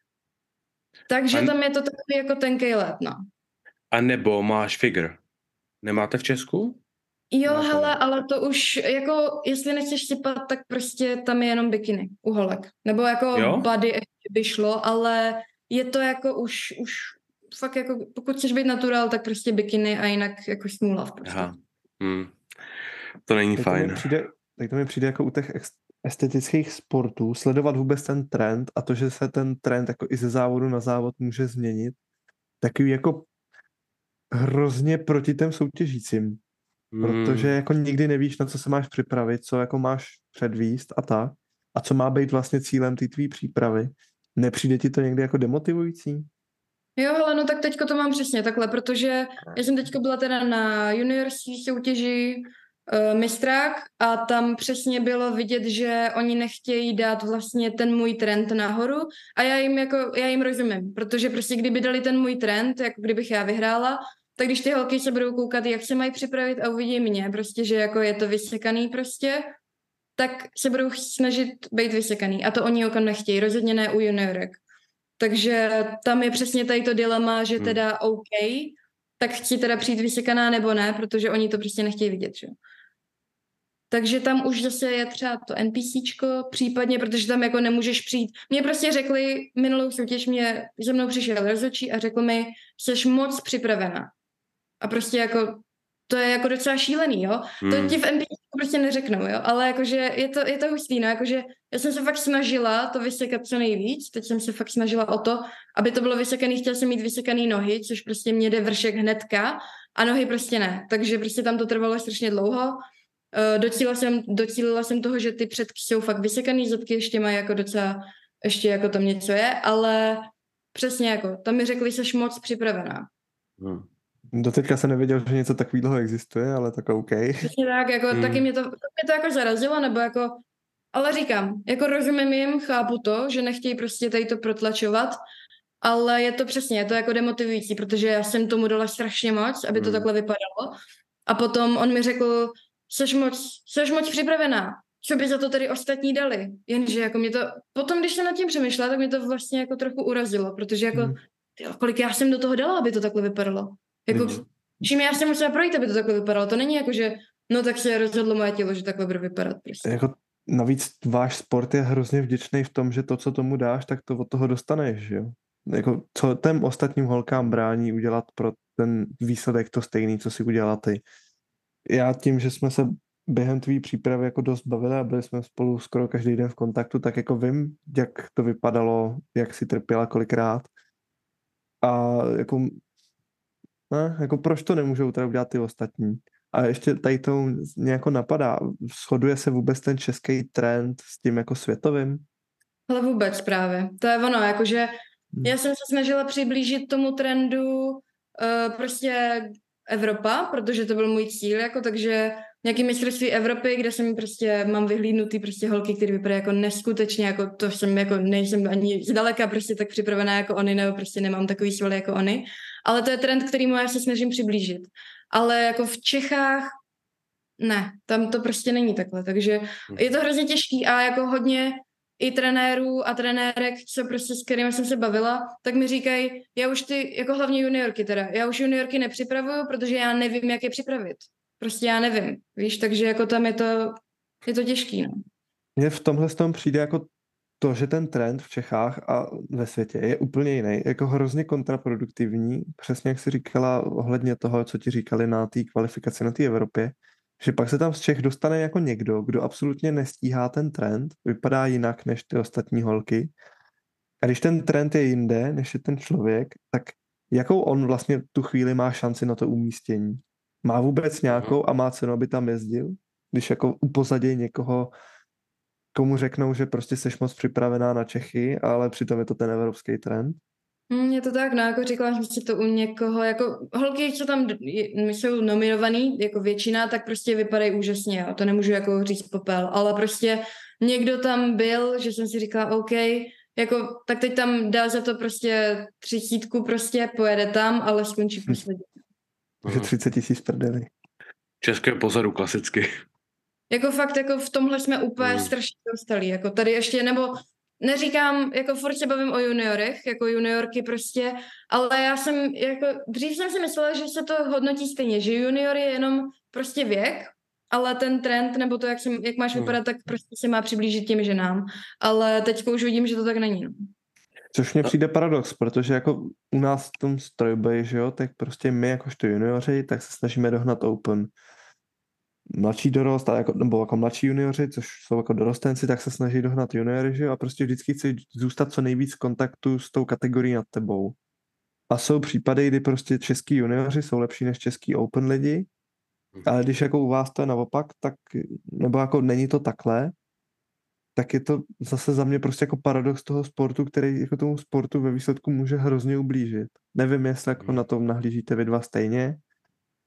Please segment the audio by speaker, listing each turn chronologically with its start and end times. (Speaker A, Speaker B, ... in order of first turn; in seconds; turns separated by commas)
Speaker A: 1.1-3.2, Speaker B: 3.9-5.2, Speaker B: 5.8-6.8, Speaker A: 7.3-21.5, Speaker B: 7.5-8.0, Speaker B: 13.3-13.7, Speaker B: 21.2-22.4, Speaker B: 23.3-24.1, Speaker C: 23.6-31.9, Speaker C: 32.6-33.3, Speaker C: 34.3-36.4, Speaker B: 36.9-37.5, Speaker C: 37.0-46.3, Speaker A: 47.0-69.5, Speaker A: 70.2-74.6, Speaker A: 75.2-82.5, Speaker A: 83.9-94.1, Speaker A: 94.8-123.1, Speaker B: 97.6-98.0, Speaker B: 123.6-123.9, Speaker C: 124.3-127.5, Speaker A: 127.4-135.2, Speaker B: 128.1-128.4, Speaker A: 135.8-160.0, Speaker B: 139.7-140.1, Speaker C: 154.1-154.4, Speaker C: 159.8-171.0, Speaker C: 171.9-180.7, Speaker C: 181.8-182.8, Speaker C: 183.9-192.2, Speaker A: 192.9-194.9, Speaker A: 195.4-216.8, Speaker A: 217.6-235.1, Speaker C: 235.8-237.1, Speaker C: 237.6-253.3, Speaker C: 254.2-264.9, Speaker B: 261.3-261.6, Speaker C: 265.9-270.4, Speaker A: 270.9-288.9, Speaker B: 289.6-289.9, Speaker C: 289.6-290.9, Speaker B: 291.6-293.0, Speaker A: 293.7-313.9, Speaker B: 295.2-295.5, Speaker C: 314.5-321.3, Speaker C: 322.5-331.2, Speaker C: 331.9-335.7, Speaker C: 336.4-340.1, Speaker C: 341.1-349.4